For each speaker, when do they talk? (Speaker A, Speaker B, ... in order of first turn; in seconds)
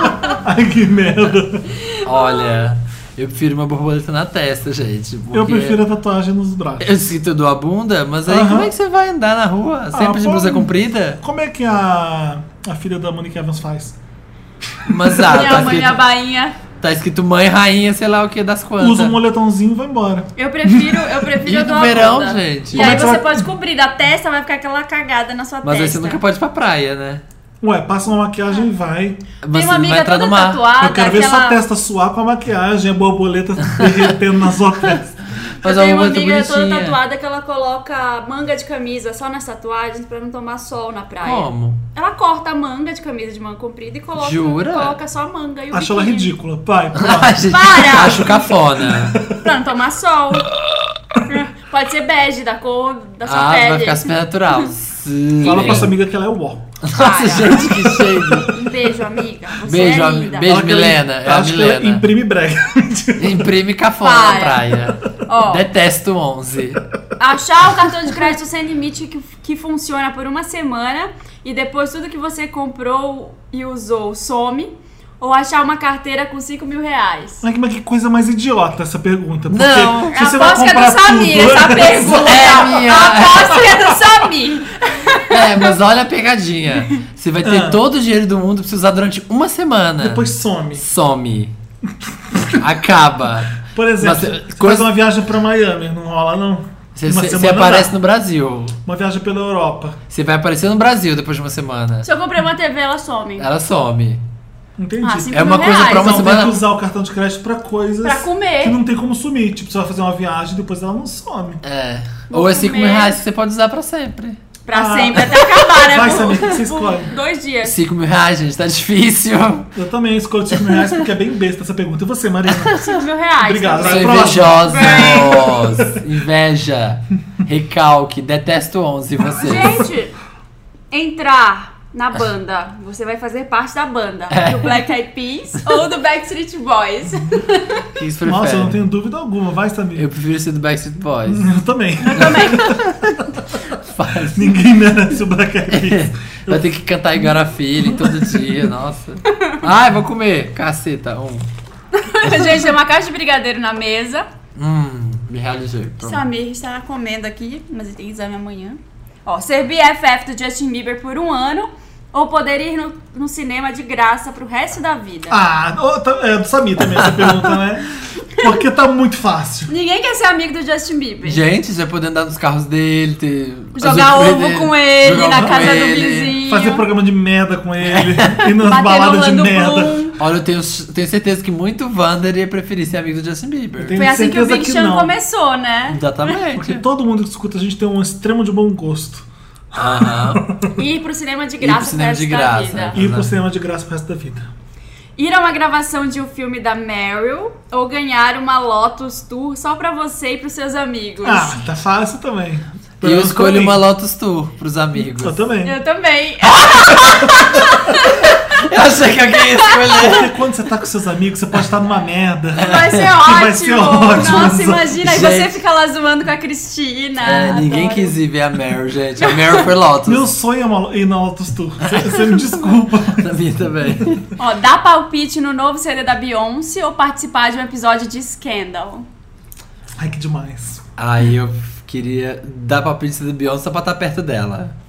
Speaker A: 0.3-1.7, 5.3-6.9, 8.2-8.7, 9.9-14.0, 14.9-15.4, 18.8-21.1, 22.7-23.5, 27.6-29.2, 30.8-35.1, 45.7-47.5, 48.8-49.4, 55.4-56.6, 60.4-63.5, 77.4-82.6, 87.4-87.8, 90.0-90.8, 92.1-92.6, 93.6-97.9, 98.8-100.0, 104.8-111.6, 114.7-117.1, 119.7-122.8, 123.4-125.3, 138.2-140.1, 141.2-142.8, 144.3-146.7, 147.9-148.3, 165.3-169.7, 175.2-175.7, 176.4-179.9, 183.8-185.1, 186.5-190.6, 192.9-194.5, 201.2-203.8, 205.2-205.8, 209.9-215.0, 220.1-223.3, 230.0-230.8
Speaker B: 1.7-2.6, 15.3-16.6, 20.4-26.2, 29.5-31.6, 35.6-46.3, 47.5-48.4, 49.4-50.5, 51.2-54.1, 55.5-55.8, 56.9-60.5, 64.0-64.7, 65.2-65.7, 67.2-77.4, 80.1-85.7, 102.0-103.5, 105.0-106.4, 108.0-108.8, 112.3-113.2, 114.7-117.8, 122.8-125.6, 129.4-130.1, 130.9-137.8, 142.1-142.8, 151.9-154.3, 156.0-165.4, 169.7-171.4, 173.8-176.8, 178.6-180.2, 183.9-186.3, 190.7-192.9, 195.2-201.6, 205.6-208.6, 209.4-209.9, 212.6-218.1, 224.4-229.1
Speaker C: 2.0-5.8, 6.8-11.2, 14.8-16.0, 16.8-19.2, 21.4-23.1, 25.6-27.2, 29.4-30.6, 33.6-34.1, 35.6-37.0, 41.2-41.8, 44.2-45.0, 46.9-49.2, 53.2-55.9, 56.8-58.5, 59.6-62.0, 63.2-66.8, 79.5-80.1, 82.0-83.7, 85.3-90.2, 90.8-91.5, 92.5-94.9, 96.9-98.8, 100.1-102.1, 103.4-104.2, 105.3-106.6, 111.6-114.4, 117.6-119.7, 122.5-122.9, 123.8-129.8, 134.3-134.7, 137.9-138.8, 139.9-141.5, 142.2-144.6, 145.7-151.5, 152.3-152.6, 154.6-156.2, 167.0-167.4, 171.2-176.3, 177.8-178.5, 180.2-184.0, 185.9-186.8, 189.7-190.5, 191.6-193.3, 203.0-205.4, 206.7-207.3, 208.5-210.3, 212.6-213.2, 214.2-215.6, 217.2-220.3, 221.8-224.3, 231.0-234.7